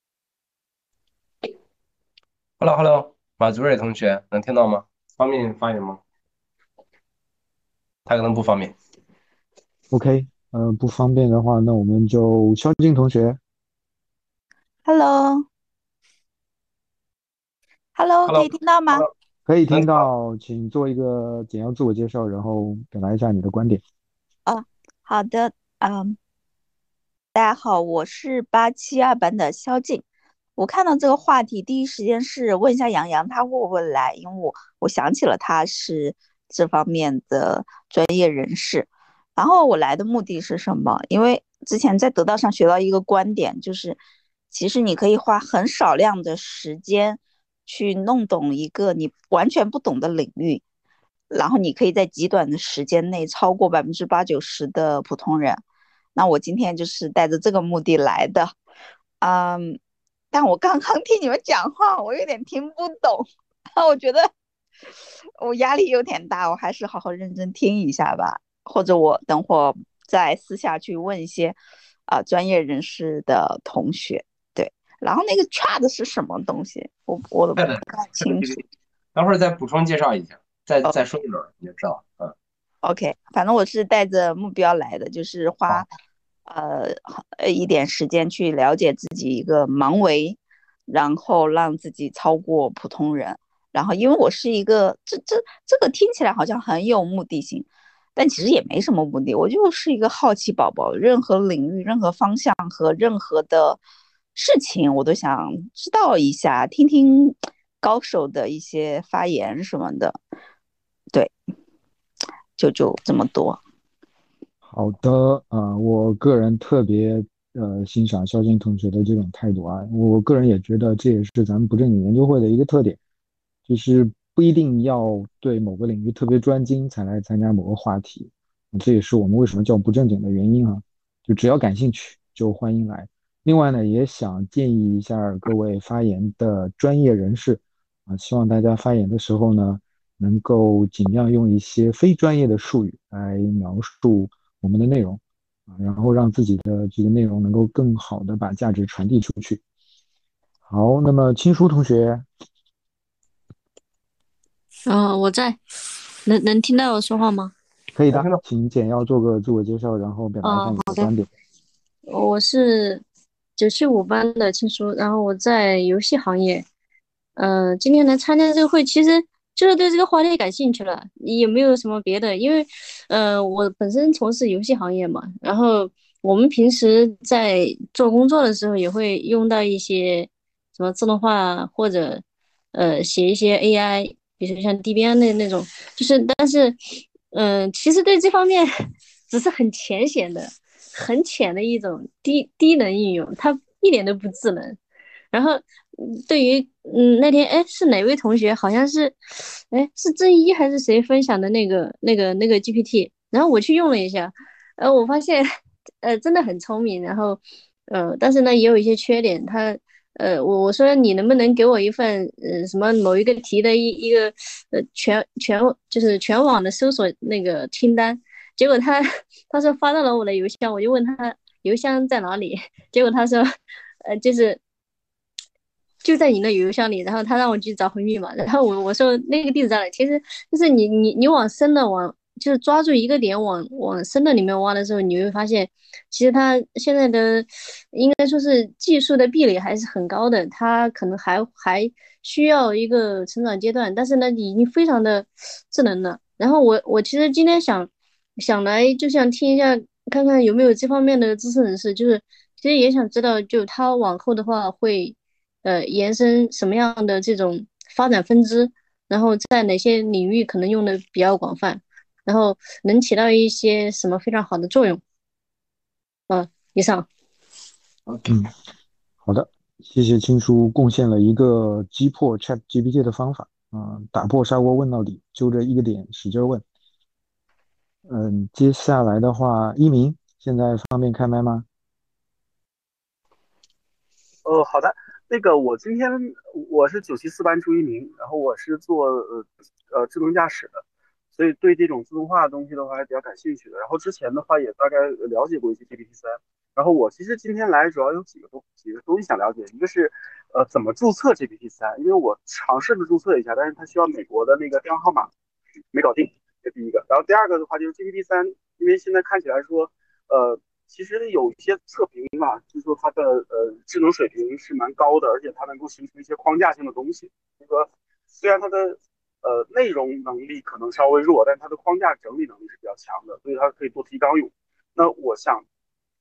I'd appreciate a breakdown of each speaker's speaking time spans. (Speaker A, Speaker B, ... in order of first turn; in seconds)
Speaker A: 2.6-6.0, 8.1-8.8, 18.3-19.1, 19.7-20.0, 77.6-78.6, 79.2-82.3, 158.1-158.4, 268.1-268.4
Speaker B: 9.9-13.4, 19.5-23.8, 114.7-123.0, 123.7-149.6, 150.7-152.3, 158.0-161.3, 269.2-276.6, 278.1-281.7
Speaker C: 14.8-15.5, 18.0-19.1, 24.5-26.2, 27.4-30.0, 30.6-44.0, 44.5-50.6, 51.3-55.6, 56.2-58.5, 59.2-59.8, 60.3-64.3, 65.4-71.6, 72.1-78.6, 82.8-85.9, 86.5-103.8, 104.4-110.2, 112.6-113.6
Speaker D: 154.9-155.6, 156.3-157.5, 160.4-161.1, 162.1-163.0, 163.6-166.7, 167.4-182.2, 182.7-186.8, 187.3-188.7, 189.3-194.8, 195.3-199.2, 199.7-205.5, 206.0-223.5, 224.1-224.6, 226.0-265.0, 266.3-267.1
Speaker E: 284.4-290.8, 291.4-305.3, 305.9-325.6